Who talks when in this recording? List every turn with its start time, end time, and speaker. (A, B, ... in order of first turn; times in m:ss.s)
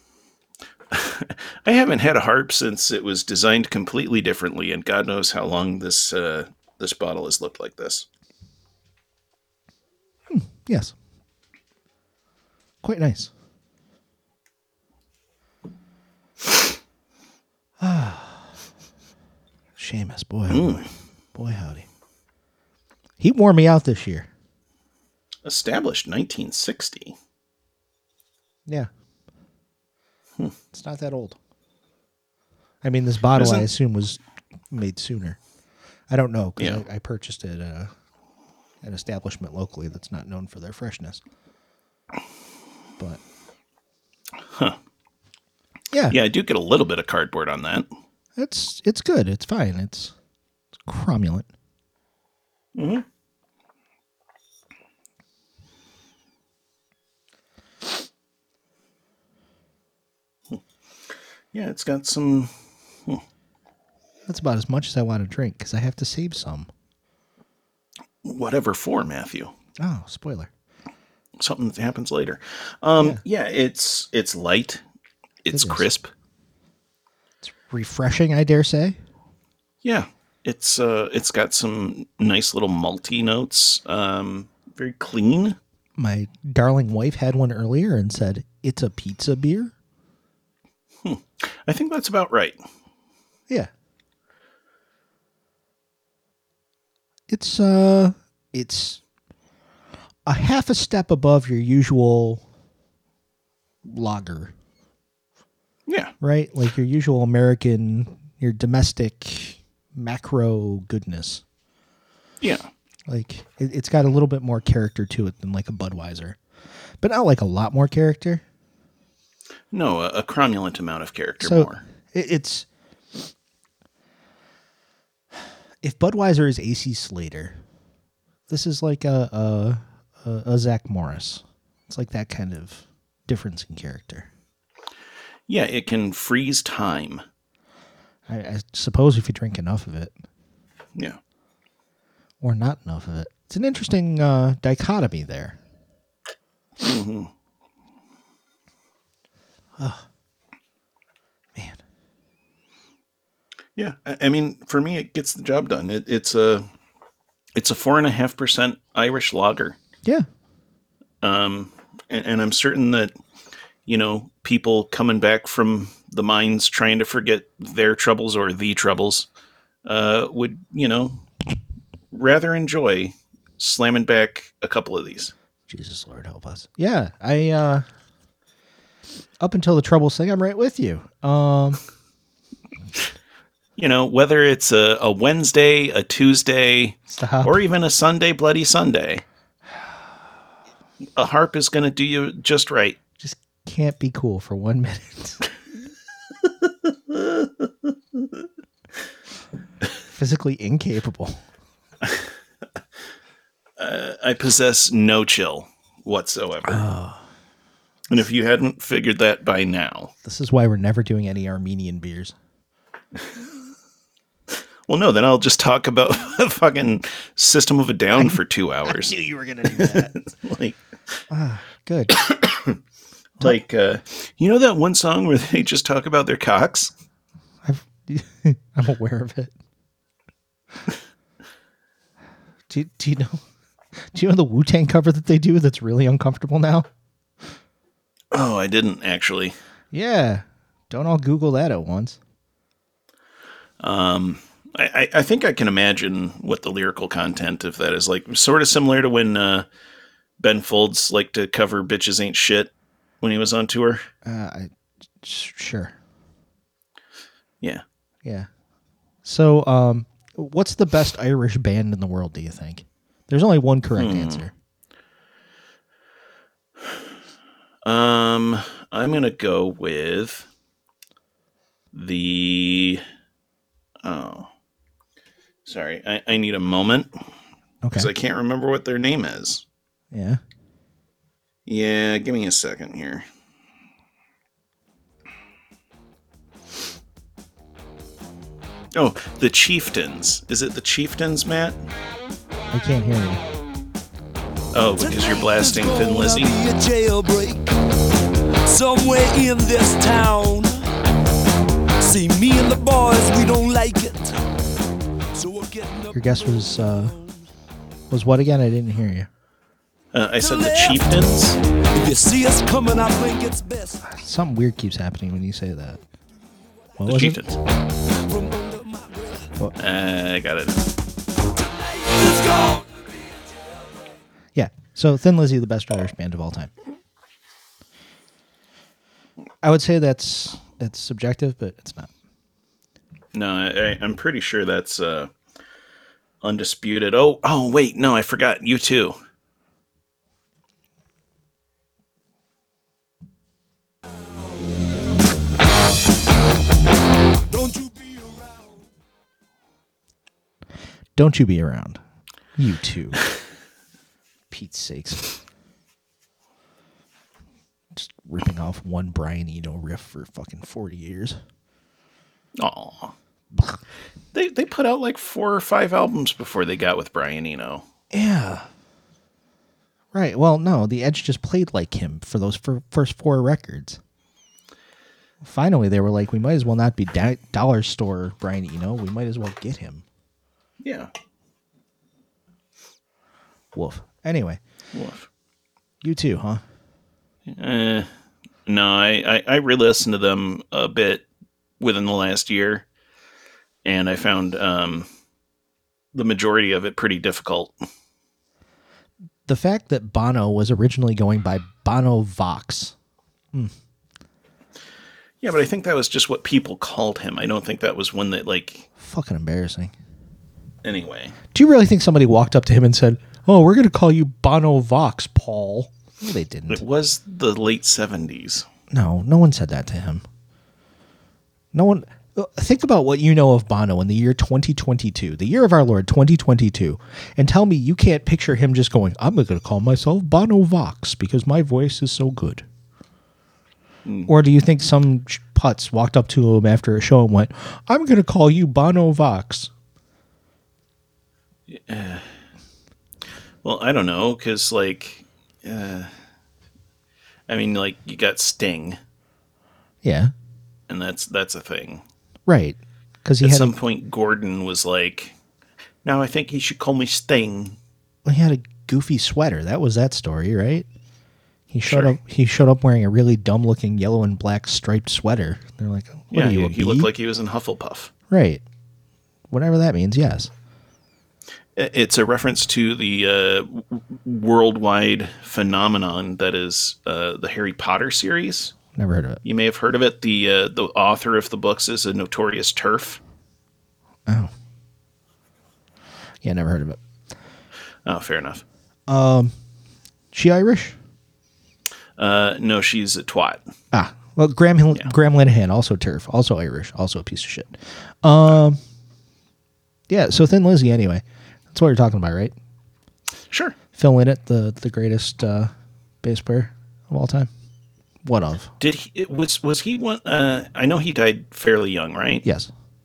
0:00.9-0:08.1 A
0:10.3-0:10.9 B
0:12.8-0:13.3 B
0:17.8-0:18.4 B
0:19.8-0:21.9 B
0:20.5-0:20.9 A
0:23.2-0:24.3 B
0:25.4-0:27.2 A
0:30.7-0:31.4 B
0:32.8-0:35.4 B
0:33.4-0:33.7 A
0:36.1-0:37.9 B
0:36.6-0:36.8 A
0:38.8-0:41.2 B
0:44.4-0:44.8 A
0:45.9-0:46.2 B
0:46.1-0:47.9 A
0:48.4-0:50.1 B
0:50.9-0:51.5 B
0:52.8-0:53.0 A
1:01.5-1:02.5 A
1:04.3-1:06.7 B
1:08.2-1:09.5 A
1:09.8-1:10.5 B
1:11.4-1:14.8 A
1:15.4-1:16.1 A
1:15.5-1:15.9 B
1:17.4-1:19.0 B
1:19.8-1:25.6 A
1:26.0-1:29.7 B
1:31.0-1:32.6 A
1:37.3-1:39.0 B
1:40.3-1:42.4 B
1:43.8-1:44.5 B
1:45.9-1:46.1 A
1:46.2-1:51.4 B
1:52.4-1:52.7 A
1:53.1-1:56.4 B
1:57.0-1:58.4 B
1:59.7-2:01.8 A
2:01.4-2:02.7 B
2:05.8-2:07.6 B
2:08.5-2:14.3 B
2:15.5-2:17.2 A
2:18.3-2:20.1 B
2:22.4-2:25.6 B
2:26.8-2:27.3 A
2:29.8-2:30.0 B
2:33.8-2:36.7 A
2:37.6-2:39.8 A
2:41.2-2:43.1 A
2:43.9-2:49.3 A
2:49.8-2:51.2 A
2:52.1-2:55.3 A
2:55.7-2:57.9 B
2:59.4-3:01.8 B
3:03.8-3:09.2 A
3:07.1-3:07.6 B
3:11.2-3:13.0 A
3:13.2-3:15.4 B
3:16.8-3:17.7 A
3:20.1-3:21.4 B
3:23.8-3:26.9 A
3:26.7-3:27.2 B
3:28.1-3:30.1 A
3:30.2-3:32.4 B
3:34.9-3:39.1 A
3:38.2-3:40.1 B
3:39.6-3:40.8 A
3:41.3-3:42.2 B
3:42.1-3:42.8 A
3:43.4-3:46.9 A
3:47.6-3:49.5 B
3:52.7-3:53.4 B
3:54.1-3:56.9 B
3:58.3-3:59.6 A
3:59.9-4:02.2 B
4:03.8-4:09.7 A
4:10.4-4:14.1 A
4:14.2-4:14.7 B
4:15.2-4:16.0 B
4:19.2-4:24.5 B
4:24.0-4:24.4 A
4:27.8-4:30.5 A
4:31.9-4:33.0 A
4:34.0-4:34.5 A
4:35.6-4:37.1 A
4:37.8-4:38.1 B
4:37.9-4:39.6 A
4:40.1-4:40.4 B
4:41.7-4:43.2 A
4:48.9-4:51.8 A
4:52.7-4:53.4 B
4:54.7-4:56.6 A
4:55.0-4:57.8 C
4:58.6-5:00.9 C
5:02.0-5:04.4 C
5:05.3-5:07.3 C
5:06.1-5:07.2 B
5:08.1-5:09.3 B
5:10.1-5:11.6 A
5:10.4-5:14.0 C
5:14.1-5:16.0 B
5:17.0-5:17.5 B
5:17.1-5:17.6 A
5:18.1-5:19.5 C
5:19.8-5:20.8 A
5:21.6-5:23.2 C
5:24.6-5:26.7 B
5:29.6-5:32.1 B
5:33.3-5:35.3 A
5:36.4-5:39.2 A
5:47.5-5:48.8 C
5:51.2-5:52.0 B
5:52.6-5:53.2 B
5:54.5-5:55.3 B
5:58.0-6:01.4 B
6:02.6-6:03.1 A
6:03.5-6:03.8 B
6:04.3-6:07.8 A
6:08.1-6:08.7 B
6:10.1-6:14.0 B
6:15.4-6:20.0 B
6:20.8-6:21.1 A
6:23.7-6:24.6 B
6:24.9-6:25.3 A
6:26.0-6:26.6 B
6:27.5-6:28.1 A
6:28.7-6:31.2 A
6:31.8-6:32.8 A
6:33.8-6:35.1 A
6:36.1-6:37.8 A
6:39.5-6:43.0 B
6:45.4-6:48.9 A
6:49.0-6:49.9 B
6:50.8-6:51.4 A
6:51.5-6:56.8 B
6:56.7-6:58.7 A
6:58.9-7:00.2 B
7:01.7-7:12.6 B
7:14.0-7:14.3 A
7:14.3-7:19.7 B
7:21.7-7:22.3 A
7:23.6-7:26.1 A
7:27.5-7:29.0 A
7:30.0-7:30.3 B
7:30.9-7:32.0 A
7:32.5-7:33.8 B
7:33.4-7:35.4 A
7:36.0-7:37.8 A
7:38.3-7:40.9 B
7:41.7-7:47.1 B
7:41.9-7:42.2 A
7:46.3-7:48.1 A
7:48.3-7:48.6 B
7:49.5-7:50.5 B
7:51.8-7:58.8 A
7:58.9-7:59.4 B
7:59.4-8:03.2 A
8:04.3-8:04.5 B
8:06.4-8:07.0 B
8:08.0-8:08.6 A
8:09.1-8:09.5 B
8:10.3-8:11.0 B
8:12.2-8:13.6 A
8:13.9-8:18.8 B
8:20.1-8:22.5 B
8:23.5-8:23.8 A
8:24.0-8:25.7 B
8:26.2-8:27.5 B
8:28.2-8:28.7 B
8:28.8-8:32.4 A
8:32.4-8:32.7 B